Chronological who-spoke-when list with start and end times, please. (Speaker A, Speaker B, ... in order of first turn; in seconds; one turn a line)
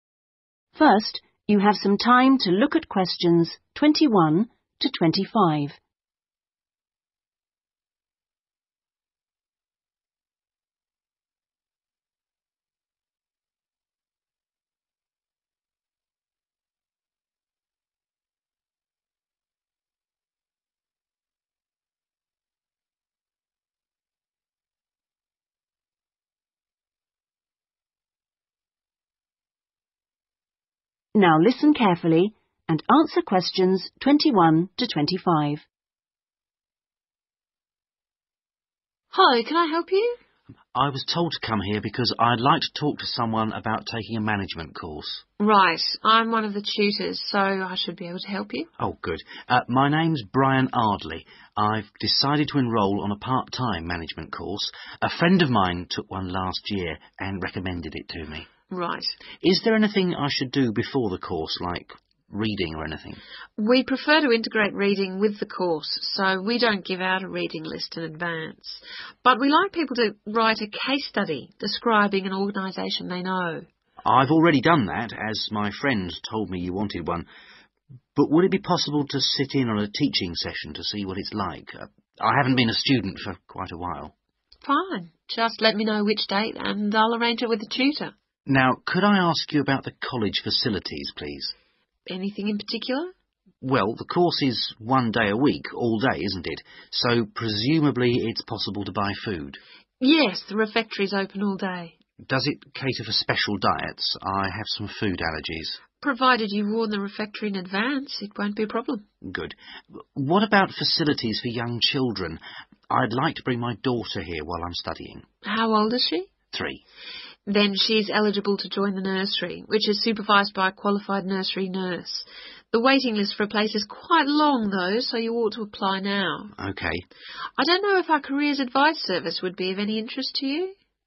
Speaker A: 0.8-5.8
Speaker A: 31.1-35.6
Speaker B: 39.1-40.2
Speaker C: 40.7-45.2
Speaker B: 45.4-48.7
Speaker C: 48.8-58.5
Speaker B: 58.7-59.1
Speaker C: 59.4-63.2
Speaker B: 63.6-73.7
Speaker C: 74.0-77.3
Speaker C: 78.2-84.1
Speaker B: 84.6-88.1
Speaker C: 88.5-91.5
Speaker B: 92.1-93.1
Speaker C: 93.6-99.6
Speaker B: 100.0-102.0
Speaker C: 102.2-105.8
Speaker B: 105.9-109.1
Speaker C: 109.2-115.3
Speaker B: 115.4-116.3
Speaker C: 116.5-116.8
Speaker B: 117.5-126.5
Speaker C: 126.6-127.0
Speaker B: 127.6-130.8